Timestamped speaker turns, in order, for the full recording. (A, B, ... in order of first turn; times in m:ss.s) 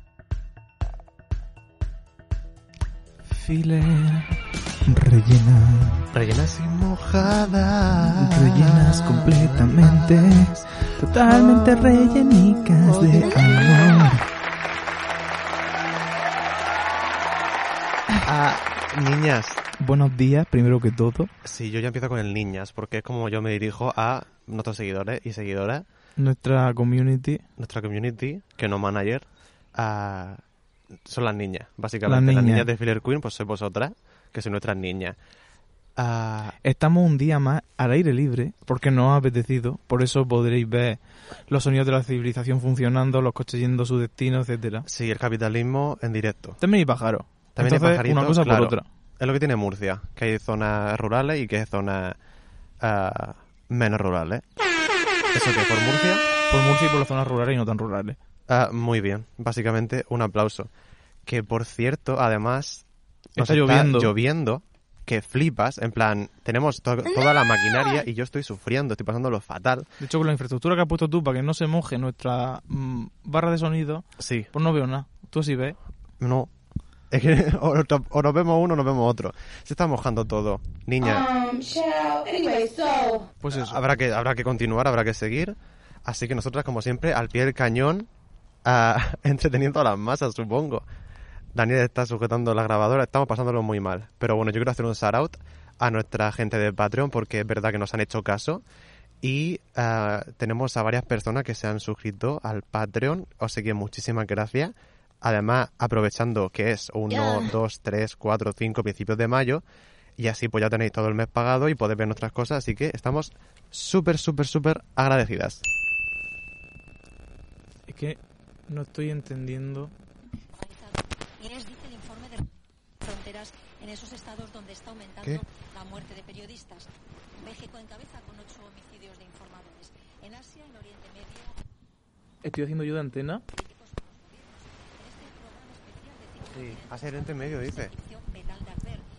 0:03.2-0:06.1 A
0:06.1-0:10.6 B
0:08.2-0:14.2 A
0:12.8-0:14.1 B
0:18.2-0:19.6 B
0:19.8-0:21.3 A
0:21.4-0:25.8 B
0:26.2-0:27.4 A
0:27.6-0:30.4 B
0:31.0-0:35.2 B
0:32.0-0:32.7 A
0:36.0-0:36.6 B
0:36.6-0:44.8 A
0:44.8-0:46.6 B
0:46.6-0:48.8 A
0:47.5-0:52.2 B
0:52.8-0:54.4 B
0:55.3-0:56.2 B
0:56.5-0:58.2 A
0:58.5-1:00.7 B
1:01.2-1:02.8 B
1:03.4-1:04.1 A
1:03.4-1:09.8 B
1:10.0-1:15.8 A
1:14.2-1:14.5 B
1:16.2-1:16.5 B
1:17.1-1:21.3 B
1:21.2-1:23.3 C
1:23.4-1:23.8 A
1:23.5-1:28.1 B
1:28.6-1:30.8 B
1:31.5-1:38.6 B
1:39.2-1:49.6 B
1:50.2-1:55.6 B
1:57.9-1:59.9 A
2:00.6-2:11.5 D
2:12.4-2:13.4 A
2:13.5-2:19.0 D
2:16.6-2:17.9 B